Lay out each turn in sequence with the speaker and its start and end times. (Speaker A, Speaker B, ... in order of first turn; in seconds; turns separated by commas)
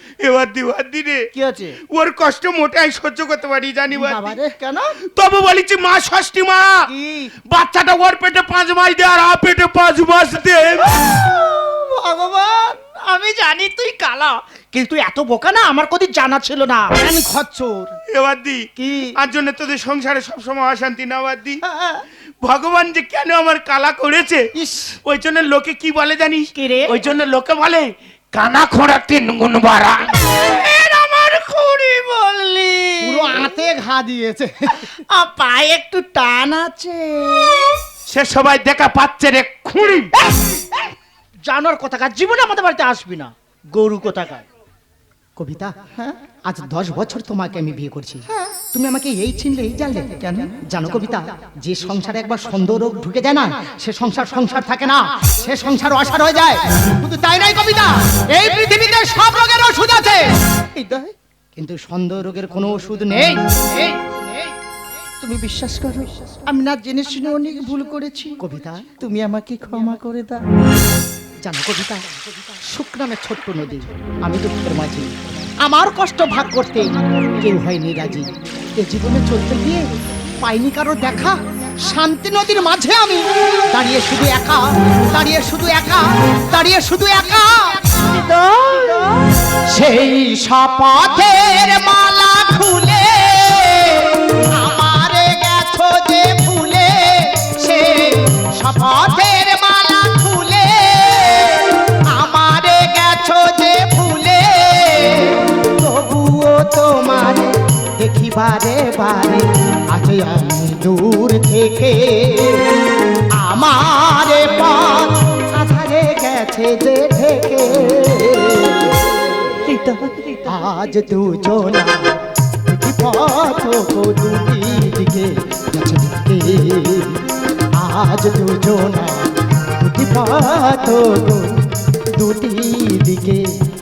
Speaker A: 0.2-1.3, Speaker B: 1.4-1.8, Speaker A: 1.9-4.4, Speaker B: 3.9-4.9, Speaker A: 5.1-6.9, Speaker B: 6.9-7.3, Speaker A: 7.5-11.1, Speaker B: 10.9-16.9, Speaker C: 16.9-17.9, Speaker A: 18.1-21.6, Speaker B: 18.8-19.1, Speaker B: 21.6-22.0, Speaker A: 22.4-24.5, Speaker C: 24.6-24.9, Speaker A: 25.1-30.2, Speaker B: 26.6-26.9, Speaker B: 30.2-33.4, Speaker C: 33.0-34.9, Speaker B: 34.8-37.8, Speaker A: 38.1-40.1, Speaker B: 40.2-40.9, Speaker B: 41.4-44.4, Speaker C: 45.4-45.7, Speaker C: 46.5-60.2, Speaker B: 50.2-50.6, Speaker B: 60.8-61.1, Speaker C: 61.6-63.9, Speaker B: 65.2-68.4, Speaker C: 68.4-69.0, Speaker B: 69.0-70.4, Speaker C: 71.4-75.1, Speaker C: 75.6-79.9, Speaker C: 80.4-87.9, Speaker B: 88.0-89.3, Speaker C: 89.7-112.8, Speaker C: 113.4-119.2, Speaker B: 119.6-120.4, Speaker C: 120.5-127.2, Speaker C: 127.8-133.5